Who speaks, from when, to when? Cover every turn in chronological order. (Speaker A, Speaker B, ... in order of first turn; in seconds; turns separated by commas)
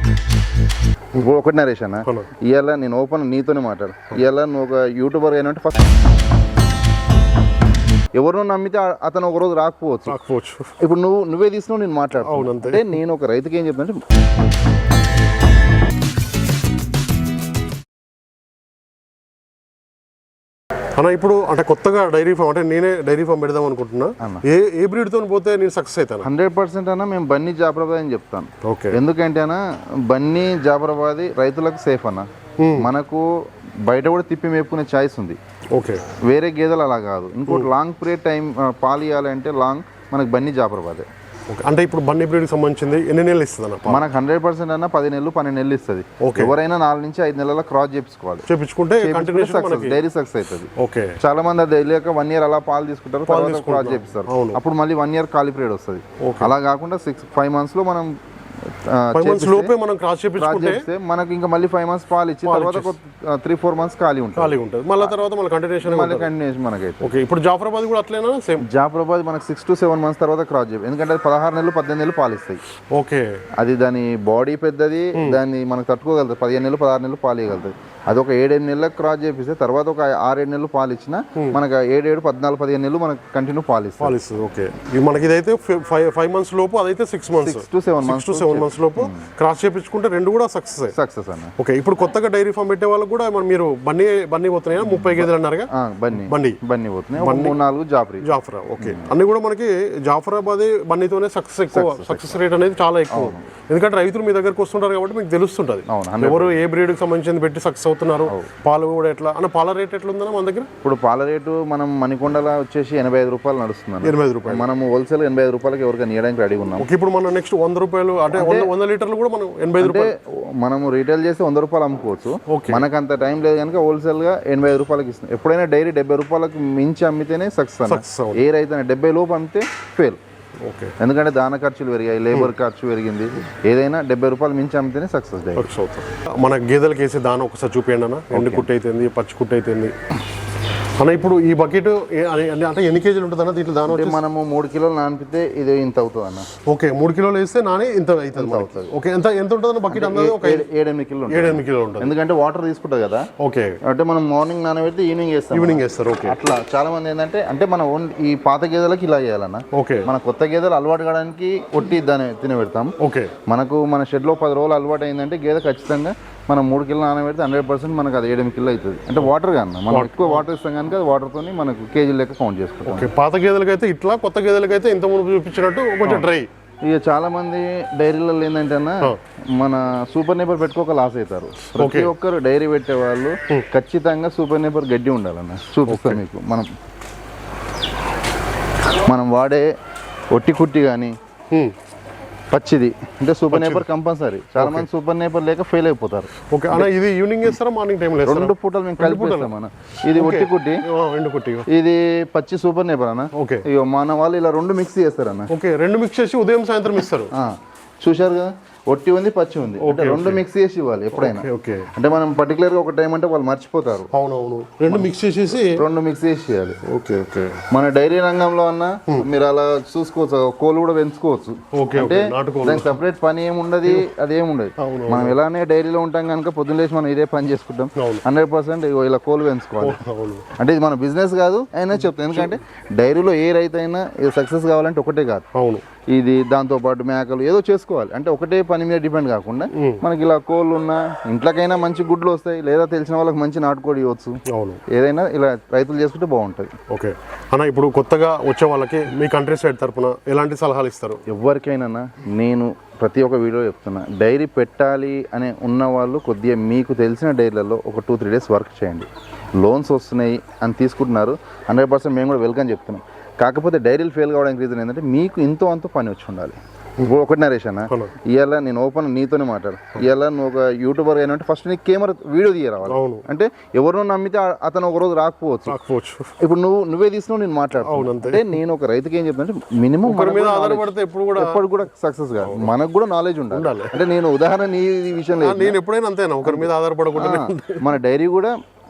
Speaker A: 1.1-5.8, Speaker A: 8.1-10.2, Speaker B: 10.1-10.8, Speaker A: 10.8-14.0, Speaker B: 12.2-12.9, Speaker B: 20.9-26.3, Speaker A: 26.2-33.3, Speaker B: 28.6-29.0, Speaker B: 32.6-32.9, Speaker A: 33.8-35.4, Speaker B: 35.7-36.0, Speaker A: 36.2-41.0, Speaker B: 41.5-44.0, Speaker A: 43.9-48.5, Speaker B: 46.2-46.5, Speaker B: 48.5-50.0, Speaker A: 49.0-58.1, Speaker B: 50.8-51.1, Speaker B: 53.3-54.6, Speaker B: 56.2-56.5, Speaker A: 58.6-59.7, Speaker B: 59.1-60.8, Speaker A: 60.4-65.1, Speaker B: 62.4-62.9, Speaker B: 64.4-66.3, Speaker A: 65.8-67.1, Speaker B: 67.0-68.7, Speaker A: 68.6-72.6, Speaker B: 72.9-73.4, Speaker A: 73.6-84.2, Speaker B: 84.0-90.9, Speaker A: 87.4-89.3, Speaker A: 90.9-91.5, Speaker B: 91.6-96.6, Speaker A: 94.8-98.3, Speaker B: 97.2-97.6, Speaker B: 98.2-110.7, Speaker A: 98.8-99.1, Speaker A: 101.7-102.4, Speaker A: 103.1-103.5, Speaker A: 105.9-106.6, Speaker A: 110.8-116.9, Speaker B: 114.0-114.7, Speaker B: 116.8-120.1, Speaker A: 118.3-118.7, Speaker A: 119.8-130.2, Speaker B: 122.5-122.8, Speaker B: 127.9-128.4, Speaker B: 130.6-130.9, Speaker A: 131.0-135.7, Speaker B: 135.6-139.9, Speaker A: 138.3-138.7, Speaker B: 141.0-144.2, Speaker A: 143.9-146.5, Speaker B: 146.7-150.7, Speaker A: 148.3-148.9, Speaker A: 149.9-153.3, Speaker B: 151.3-152.1, Speaker B: 153.4-153.8, Speaker A: 153.8-162.9, Speaker B: 155.5-156.4, Speaker B: 159.7-160.1, Speaker B: 163.0-163.3, Speaker A: 163.4-173.1, Speaker B: 169.9-170.4, Speaker B: 172.8-176.5, Speaker A: 176.0-176.3, Speaker A: 176.8-186.7, Speaker B: 181.8-182.1, Speaker B: 185.9-186.2, Speaker A: 189.0-189.7, Speaker A: 190.3-191.1, Speaker A: 192.5-196.9, Speaker B: 193.5-193.9, Speaker B: 194.6-194.8, Speaker B: 196.5-199.5, Speaker A: 198.2-200.8, Speaker B: 200.1-201.7, Speaker A: 201.7-205.5, Speaker B: 203.3-203.7, Speaker B: 205.5-207.3, Speaker A: 207.3-214.1, Speaker B: 209.8-210.4, Speaker B: 211.1-211.9, Speaker B: 214.1-215.8, Speaker A: 215.7-216.8, Speaker B: 216.8-217.6, Speaker A: 217.7-230.0, Speaker B: 221.7-222.9, Speaker B: 224.8-225.3, Speaker B: 228.0-228.2, Speaker B: 229.8-230.4, Speaker A: 230.6-235.5, Speaker B: 232.0-232.6, Speaker B: 235.5-235.8, Speaker A: 236.1-246.7, Speaker B: 239.7-240.0, Speaker B: 244.5-244.8, Speaker B: 246.9-251.2, Speaker A: 251.3-259.1, Speaker A: 259.6-275.8, Speaker B: 272.9-273.2, Speaker B: 275.7-276.3, Speaker A: 276.4-285.8, Speaker B: 277.8-278.5, Speaker B: 280.1-281.6, Speaker B: 282.4-282.7, Speaker B: 283.5-283.9, Speaker B: 285.4-287.9, Speaker A: 286.4-288.5